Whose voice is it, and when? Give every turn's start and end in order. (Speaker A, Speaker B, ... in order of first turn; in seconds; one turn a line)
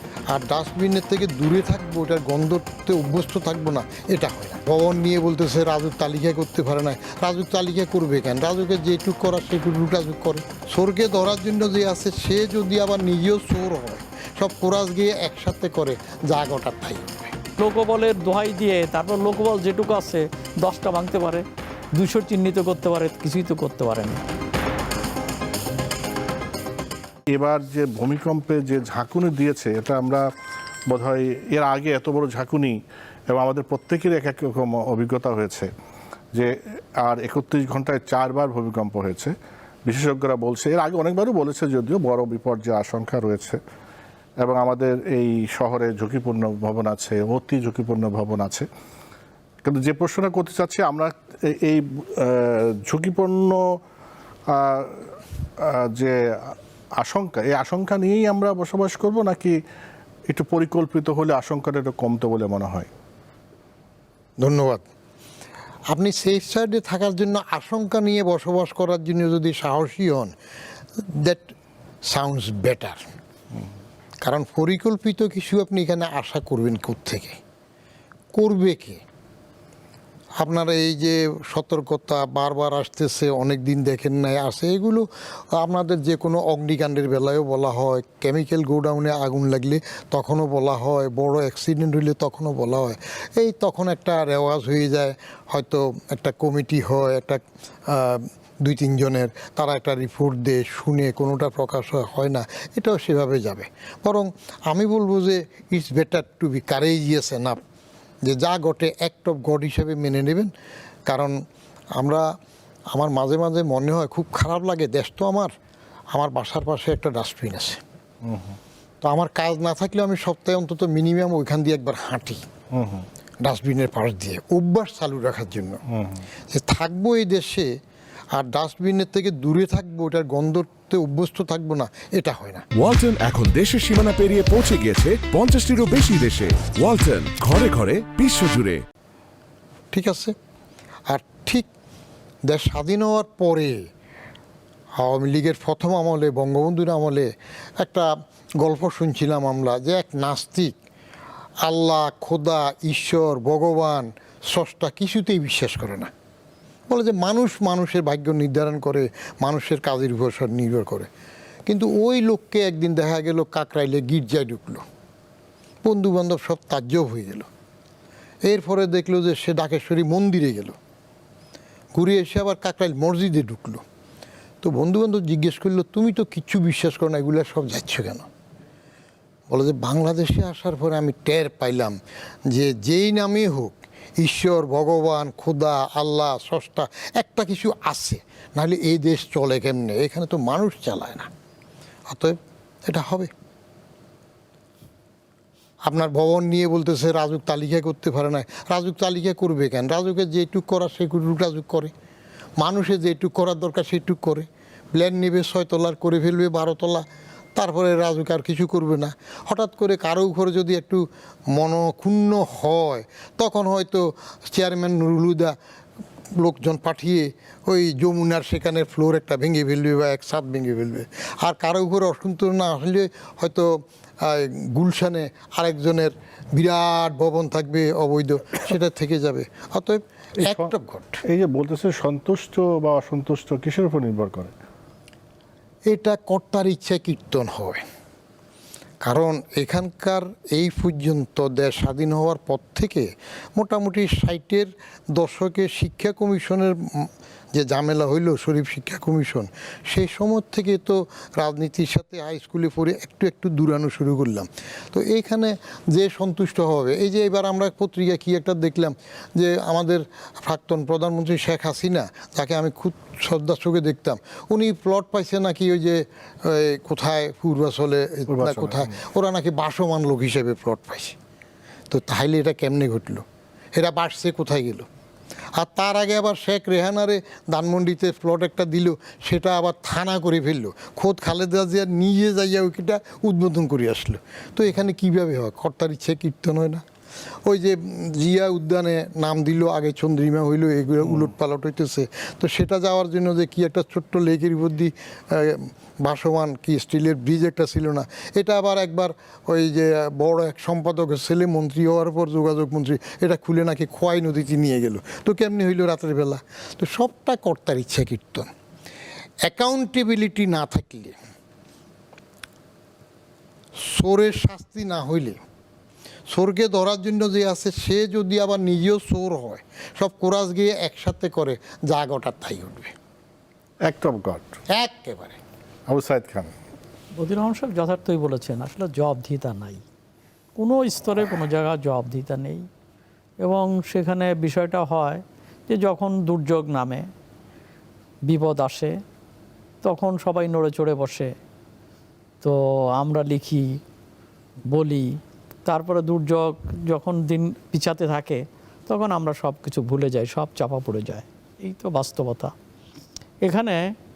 Speaker A: 0.3-17.3
Speaker B: 17.6-21.4
Speaker B: 21.9-24.2
Speaker C: 27.3-30.2
Speaker C: 30.9-32.8
Speaker C: 33.3-35.7
Speaker C: 36.3-39.3
Speaker C: 39.9-43.6
Speaker C: 44.4-48.7
Speaker C: 49.6-53.6
Speaker C: 54.5-59.6
Speaker C: 60.3-62.9
Speaker A: 64.4-64.8
Speaker A: 65.9-70.3
Speaker A: 71.1-71.5
Speaker A: 72.0-73.0
Speaker A: 74.2-77.4
Speaker A: 78.3-79.0
Speaker A: 80.4-107.6
Speaker A: 108.2-110.5
Speaker A: 111.1-111.4
Speaker A: 112.0-112.3
Speaker A: 112.9-115.5
Speaker A: 116.1-117.8
Speaker C: 118.2-118.6
Speaker A: 119.0-122.4
Speaker C: 122.7-123.0
Speaker A: 123.4-125.8
Speaker C: 125.9-126.2
Speaker A: 126.5-127.7
Speaker A: 128.3-132.7
Speaker D: 132.7-138.8
Speaker A: 139.9-140.3
Speaker A: 141.1-141.7
Speaker A: 142.5-143.9
Speaker A: 145.0-150.8
Speaker A: 151.6-156.1
Speaker A: 156.9-161.1
Speaker A: 161.7-164.8
Speaker A: 165.8-167.5
Speaker A: 168.5-170.8
Speaker A: 171.9-173.8
Speaker A: 174.6-178.3
Speaker A: 179.5-182.0
Speaker A: 182.5-191.3
Speaker A: 192.1-193.3
Speaker A: 195.9-201.9
Speaker A: 202.6-215.6
Speaker A: 216.4-231.2
Speaker C: 230.4-230.7
Speaker C: 231.2-234.5
Speaker A: 235.9-237.8
Speaker A: 239.0-271.2
Speaker C: 268.3-269.0
Speaker A: 271.9-274.9
Speaker A: 275.6-286.8
Speaker A: 287.4-308.5
Speaker A: 309.4-311.1
Speaker A: 313.8-315.4
Speaker A: 316.3-322.9
Speaker C: 323.9-324.4
Speaker A: 324.7-325.4
Speaker C: 325.9-326.5
Speaker B: 327.2-329.8
Speaker B: 330.6-332.6
Speaker B: 333.4-337.1
Speaker B: 338.3-338.9
Speaker B: 339.8-341.3
Speaker B: 342.4-343.6
Speaker B: 344.7-345.1
Speaker B: 345.7-352.5
Speaker B: 353.4-353.8